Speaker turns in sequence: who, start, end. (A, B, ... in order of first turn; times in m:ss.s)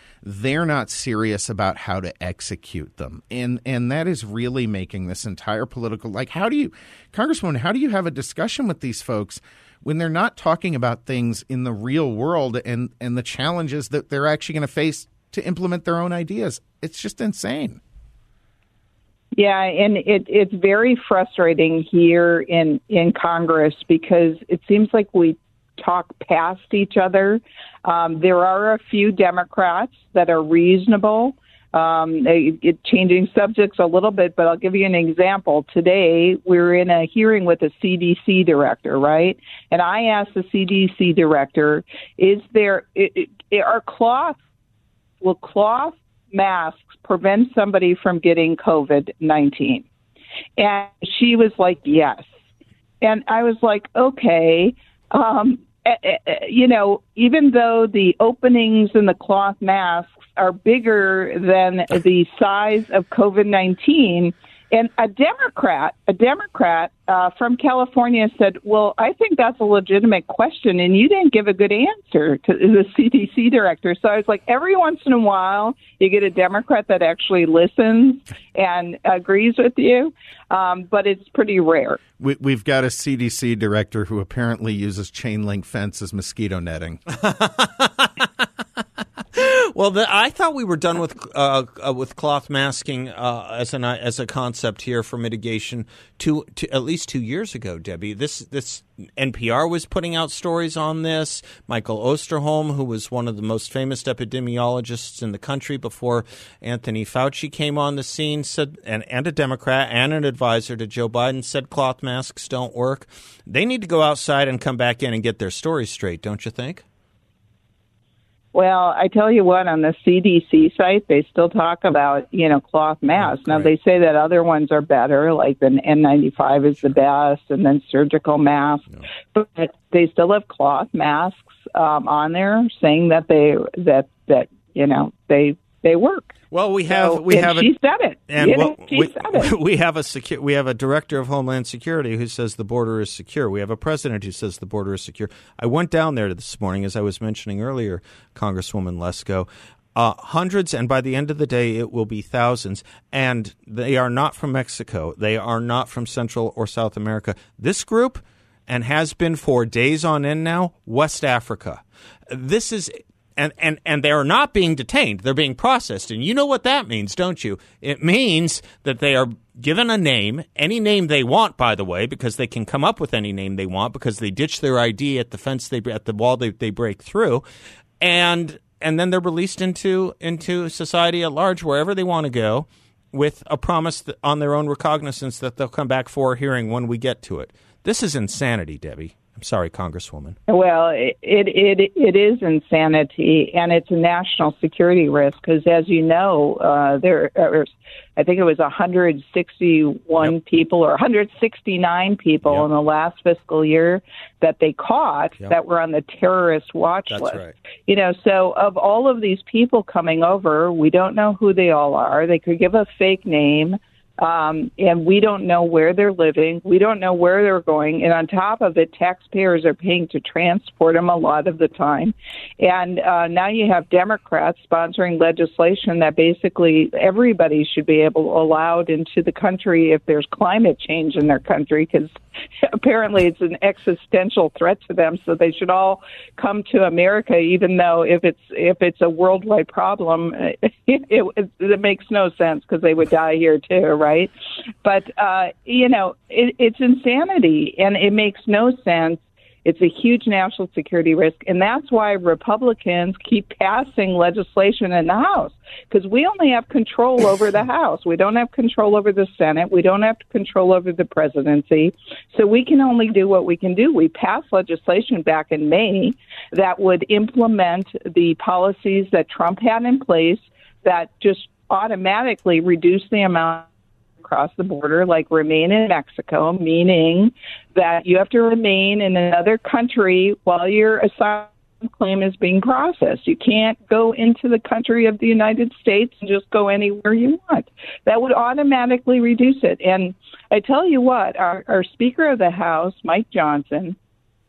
0:00.2-0:17.8 A
0:19.3-0:44.4 B
0:45.2-0:49.8 B
0:50.6-0:52.3 B
0:53.0-1:22.0 B
1:22.2-1:27.0 A
1:27.1-1:28.4 C
1:29.3-1:56.8 C
1:58.5-2:16.3 B
2:03.2-2:03.7 C
2:16.5-2:17.7 C
2:16.9-2:19.5 B
2:18.3-2:57.4 C
2:58.0-3:10.4 C
3:10.5-4:04.3 B
3:27.1-3:27.6 C
4:04.8-4:33.7 B
4:34.2-4:54.0 B